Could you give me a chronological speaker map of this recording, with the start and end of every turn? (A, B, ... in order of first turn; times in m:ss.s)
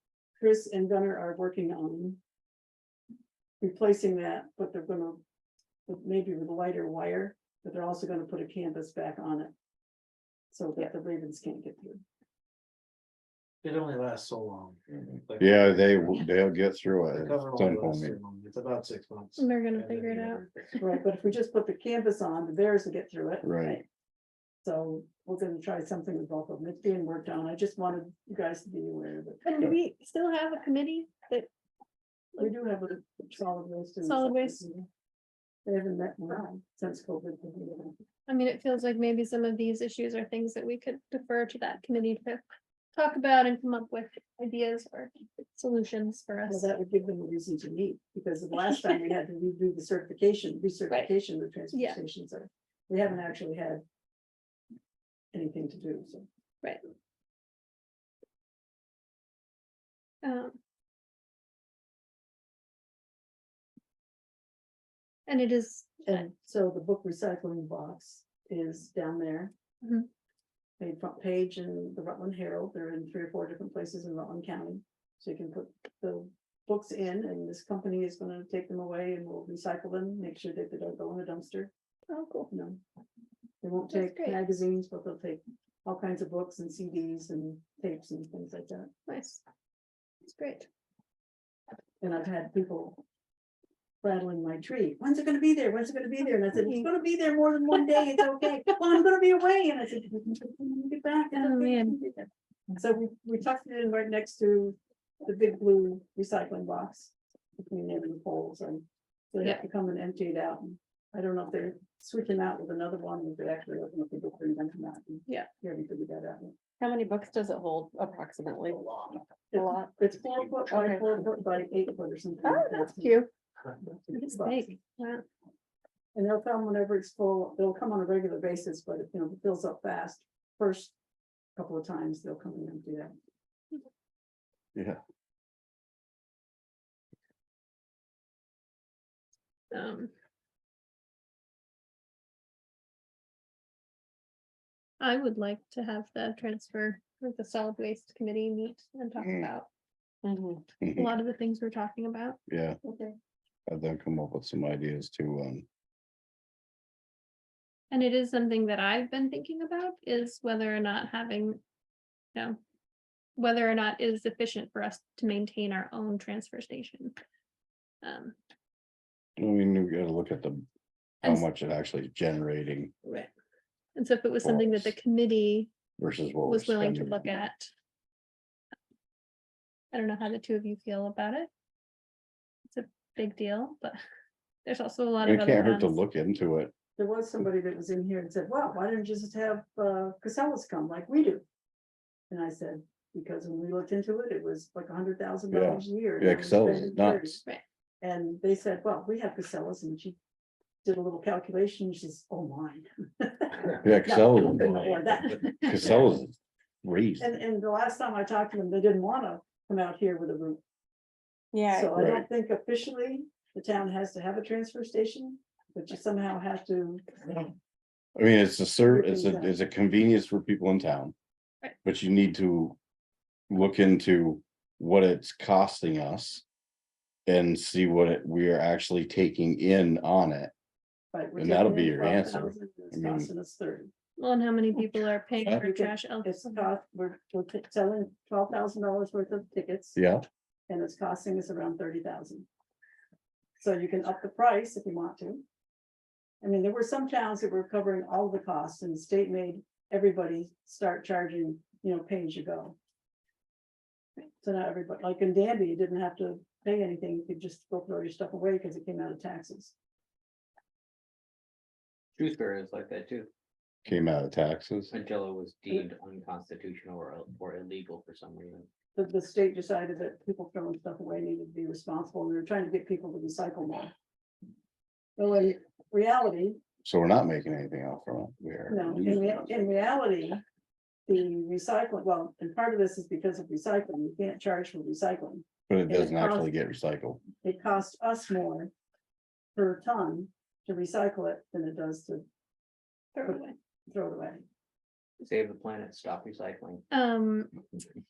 0:00.4-0:02.2 A
0:03.6-0:05.2 A
0:05.9-0:09.5 A
0:10.5-0:12.0 A
0:13.6-0:16.2 B
0:15.4-0:18.2 C
0:17.1-0:20.7 B
0:19.4-0:20.8 D
0:20.8-0:23.8 A
0:23.4-0:23.8 C
0:24.6-0:29.5 A
0:29.4-0:31.5 D
0:32.4-0:34.9 A
0:34.0-0:34.6 D
0:35.6-0:38.0 A
0:38.3-0:42.4 D
0:42.9-0:46.7 D
0:46.5-0:53.8 A
0:51.7-0:52.0 D
0:55.3-0:56.3 A
1:00.2-1:00.6 D
1:05.3-1:06.2 D
1:06.0-1:09.5 A
1:09.8-1:10.1 D
1:10.8-1:21.7 A
1:22.1-1:22.5 D
1:22.5-1:22.8 A
1:23.6-1:28.9 A
1:23.9-1:24.4 D
1:29.1-1:29.4 D
1:30.2-1:30.7 D
1:32.0-1:33.0 A
1:34.0-1:56.6 A
1:36.6-1:36.9 D
1:41.3-1:42.0 D
1:56.8-1:59.9 E
1:59.5-2:03.2 A
2:00.7-2:01.0 E
2:02.4-2:03.2 E
2:03.8-2:04.6 A
2:04.1-2:05.2 D
2:06.1-2:10.9 A
2:11.6-2:13.1 A
2:19.7-2:20.1 D
2:25.0-2:29.7 D
2:29.2-2:29.5 C
2:30.2-2:30.6 E
2:30.8-2:31.1 C
2:30.9-2:32.4 D
2:32.5-2:32.8 C
2:32.8-2:33.1 E
2:33.7-2:35.6 C
2:37.9-2:41.6 D
2:43.4-2:47.1 D
2:48.0-2:48.3 D
2:49.4-2:50.6 C
2:51.2-2:52.9 C
2:53.0-2:53.3 D
2:54.0-2:55.7 D
2:54.4-2:54.9 C
2:56.0-2:57.4 C
2:56.4-2:57.7 D
2:59.9-3:01.5 D
3:02.7-3:04.0 D
3:04.6-3:06.0 D
3:05.2-3:06.7 C
3:07.0-3:11.4 A
3:12.3-3:17.4 A
3:15.5-3:17.4 C
3:18.0-3:20.2 A
3:20.8-3:26.2 A
3:23.8-3:24.9 C
3:24.5-3:25.0 F
3:25.6-3:27.4 C
3:27.2-3:30.6 A
3:31.5-3:32.0 E
3:31.7-3:37.5 A
3:32.0-3:32.2 C
3:38.2-3:41.1 C
3:38.9-3:39.5 A
3:41.8-3:42.8 C
3:43.5-3:46.4 C
3:47.3-3:50.5 C
3:51.1-3:53.9 A
3:51.4-3:53.3 C
3:54.2-3:56.6 D
3:55.4-4:00.0 A
4:00.0-4:00.2 C
4:00.7-4:02.5 A
4:03.6-4:05.4 A
4:06.4-4:12.8 A
4:14.4-4:19.7 A
4:22.2-4:23.3 F
4:23.8-4:24.9 C
4:24.9-4:28.7 F
4:29.0-4:33.9 A
4:35.2-4:36.6 A
4:36.8-4:39.5 C
4:38.7-4:40.4 A
4:41.1-4:46.5 A
4:45.7-4:47.2 C
4:47.4-4:48.7 A
4:49.5-4:52.2 A
4:53.1-4:53.6 D
4:53.2-4:54.4 A
4:55.2-4:56.8 F
4:56.9-4:57.5 D